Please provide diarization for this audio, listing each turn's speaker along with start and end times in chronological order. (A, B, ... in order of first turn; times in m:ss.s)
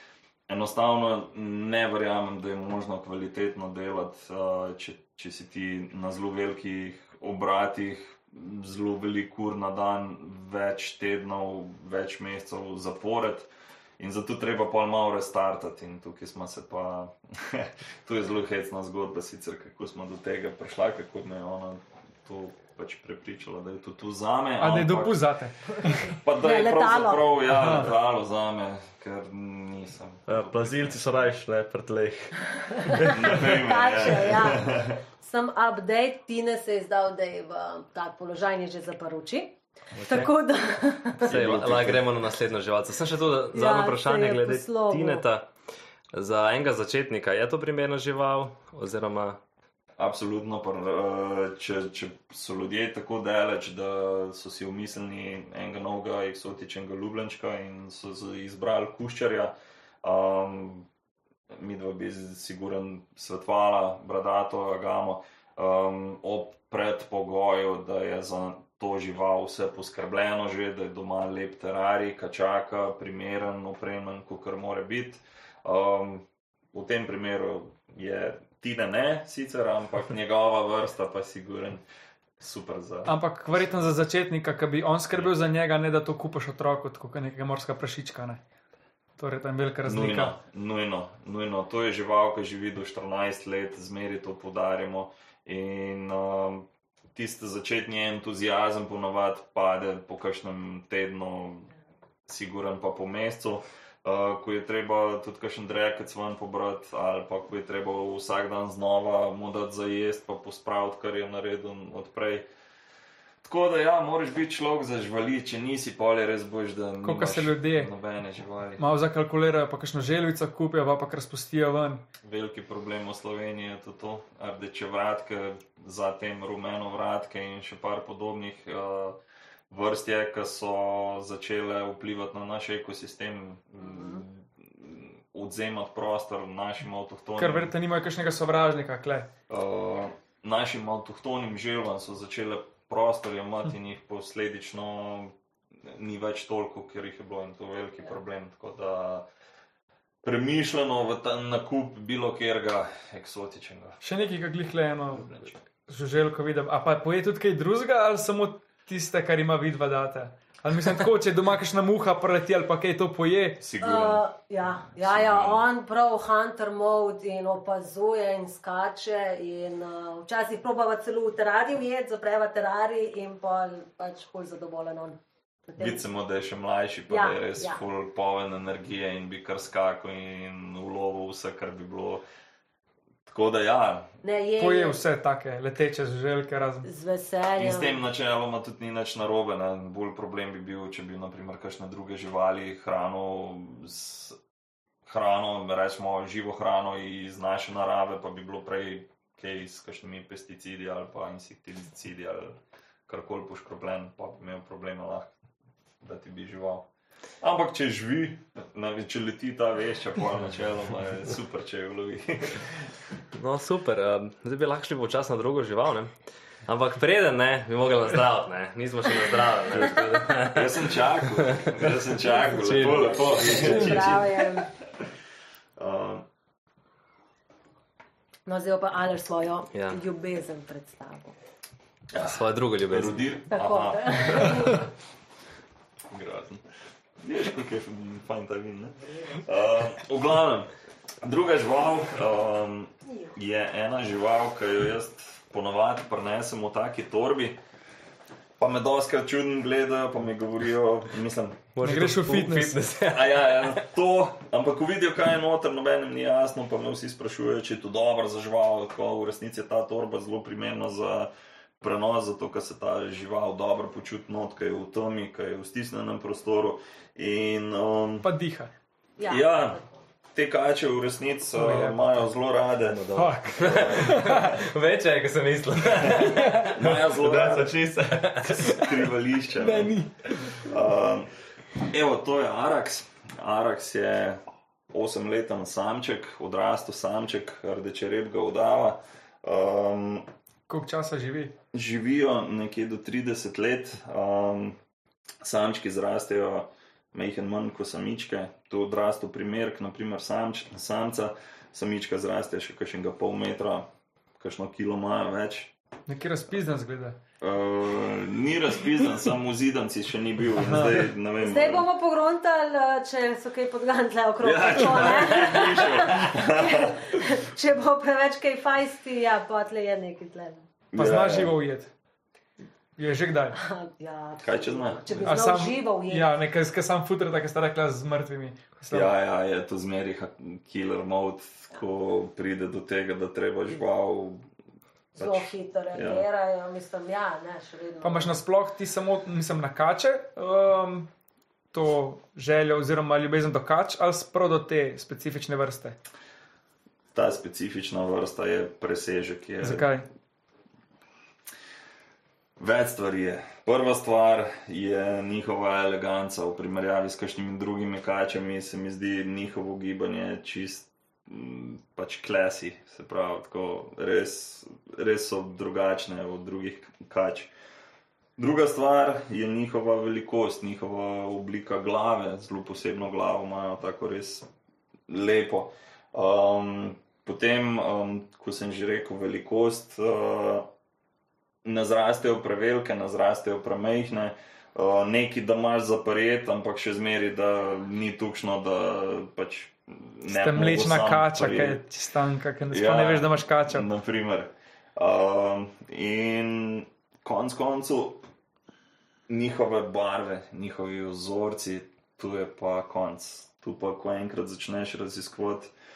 0:00.5-0:25.3 A
0:24.6-0:26.1 B
0:25.8-0:27.3 C
0:26.1-0:31.1 A
0:27.5-0:27.9 B
0:30.3-0:33.4 D
0:32.8-0:41.6 C
0:33.1-0:35.0 A
0:40.0-0:40.3 D
0:41.3-0:42.1 A
0:41.3-0:45.5 E
0:43.5-0:45.2 C
0:46.1-0:49.4 E
0:50.0-1:00.9 A
1:01.5-1:21.8 A
1:22.4-1:23.2 A
1:23.1-1:28.4 B
1:29.2-1:30.3 B
1:29.8-1:41.7 A
1:42.3-1:52.5 A
1:53.5-1:58.8 A
1:57.0-1:57.9 B
1:58.8-2:02.0 B
2:02.2-2:09.2 A
2:09.7-2:17.7 A
2:13.8-2:14.2 C
2:17.4-2:19.3 B
2:19.5-2:29.3 A
2:30.2-2:34.0 A
2:34.0-2:35.3 B
2:35.1-2:35.6 A
2:35.9-2:43.6 B
2:43.6-2:44.2 A
2:43.8-2:56.0 C
2:44.9-2:45.7 A
2:55.8-3:02.2 A
2:57.1-2:57.8 C
3:03.3-3:04.1 A
3:04.2-3:05.0 C
3:04.6-3:06.9 B
3:06.8-3:08.0 C
3:07.6-3:14.4 A
3:15.0-3:25.3 A
3:26.0-3:26.9 A
3:27.4-3:32.9 A
3:33.3-3:36.1 E
3:36.7-3:40.8 E
3:40.4-3:44.6 A
3:41.4-3:41.9 E
3:42.5-3:44.1 E
3:43.3-3:44.7 C
3:45.8-3:46.3 A
3:48.5-3:51.4 C
3:49.7-3:50.0 E
3:52.1-3:54.8 A
3:52.2-3:53.2 E
3:53.5-3:54.8 C
3:56.1-3:56.6 A
3:57.2-4:00.7 A
4:01.2-4:07.6 A
4:03.1-4:03.3 C
4:08.6-4:11.7 A
4:11.8-4:13.7 E
4:11.8-4:12.8 B
4:13.1-4:28.3 A
4:28.2-4:28.7 B
4:29.2-4:30.0 C
4:29.3-4:29.8 A
4:30.3-4:34.6 A
4:31.6-4:32.1 B
4:33.1-4:34.6 B
4:33.5-4:36.6 E
4:36.1-4:37.9 A
4:36.3-4:36.8 B
4:36.8-4:39.0 D
4:38.1-4:38.6 E
4:38.5-4:39.9 A
4:39.6-4:40.6 B
4:40.6-4:41.3 A
4:41.9-4:50.3 A
4:50.7-4:51.5 B
4:51.7-4:54.8 A
4:55.4-5:05.7 A
5:06.1-5:07.2 B
5:07.4-5:11.8 A
5:11.4-5:20.7 C
5:14.4-5:17.2 A
5:20.9-5:21.6 A
5:21.0-5:21.9 B
5:23.0-5:23.6 B
5:23.6-5:26.3 C
5:24.4-5:25.3 A
5:25.2-5:29.1 B
5:28.9-5:34.4 A
5:35.2-5:38.4 C
5:35.2-5:36.2 A
5:38.0-5:41.1 B
5:41.7-5:46.0 B
5:47.1-5:49.9 A
5:49.6-5:50.1 B
5:52.6-6:07.5 A
6:08.4-6:14.5 A
6:15.1-6:20.7 A
6:21.6-6:31.8 A
6:30.3-6:33.8 B
6:32.7-6:38.2 A
6:39.3-6:45.7 A